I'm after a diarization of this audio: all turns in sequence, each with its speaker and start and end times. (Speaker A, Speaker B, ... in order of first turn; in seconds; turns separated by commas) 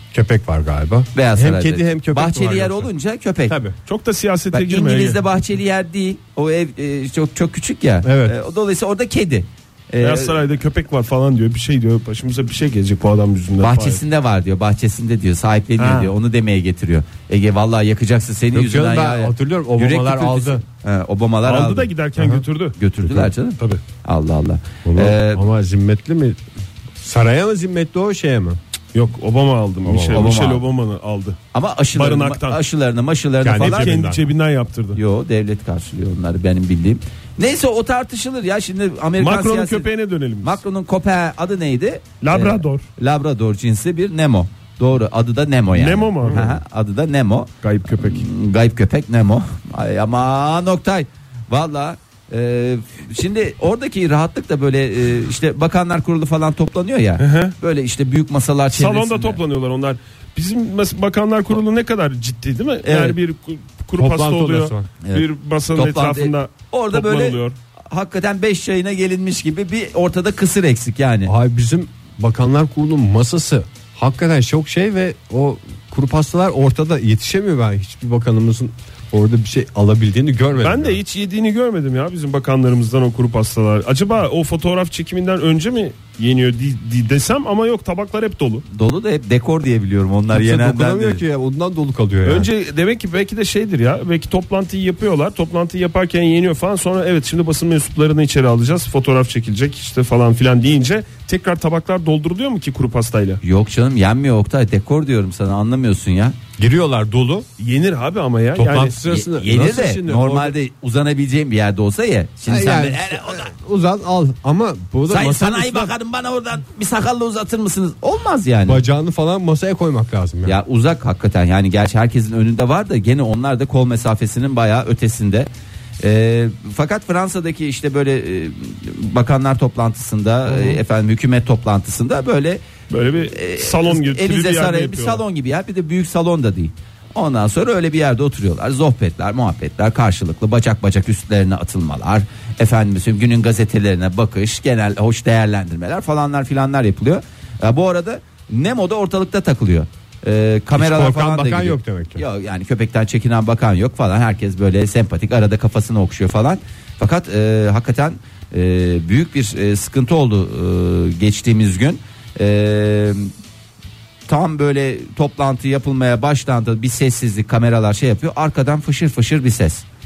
Speaker A: 0.1-2.9, Speaker B: 1.1-3.6, Speaker A: 3.5-3.7, Speaker C: 3.9-5.2, Speaker B: 4.5-10.4, Speaker A: 8.0-8.3, Speaker C: 10.0-14.0, Speaker B: 13.6-21.9, Speaker C: 15.8-16.1, Speaker A: 18.5-20.6, Speaker C: 21.4-22.8, Speaker A: 22.1-22.4, Speaker B: 22.8-25.4, Speaker A: 23.0-23.3, Speaker A: 24.8-26.4, Speaker A: 27.0-28.6, Speaker C: 28.9-31.4, Speaker A: 29.8-30.3, Speaker B: 30.1-30.6, Speaker B: 31.5-33.9, Speaker C: 31.9-32.6, Speaker A: 33.4-34.2, Speaker C: 33.5-35.0, Speaker B: 34.9-39.9, Speaker C: 39.2-40.6, Speaker B: 40.4-59.4, Speaker C: 42.2-42.8, Speaker C: 45.7-46.5, Speaker A: 47.6-48.2, Speaker C: 57.2-57.5, Speaker C: 58.7-67.5, Speaker B: 62.8-63.2, Speaker A: 64.0-64.9, Speaker B: 65.0-71.3, Speaker A: 71.2-81.0, Speaker C: 80.6-88.6, Speaker B: 88.7-91.2, Speaker A: 90.3-92.5, Speaker C: 92.2-103.4, Speaker B: 103.4-106.4, Speaker A: 106.6-107.5, Speaker C: 107.6-109.0, Speaker A: 108.5-110.5, Speaker B: 109.1-113.5, Speaker A: 112.5-115.9, Speaker B: 115.1-118.8, Speaker A: 118.7-120.6, Speaker B: 120.4-125.5, Speaker B: 126.0-132.6, Speaker C: 130.5-130.8, Speaker C: 132.9-135.2, Speaker B: 133.3-163.3, Speaker A: 150.7-152.2, Speaker B: 164.3-169.8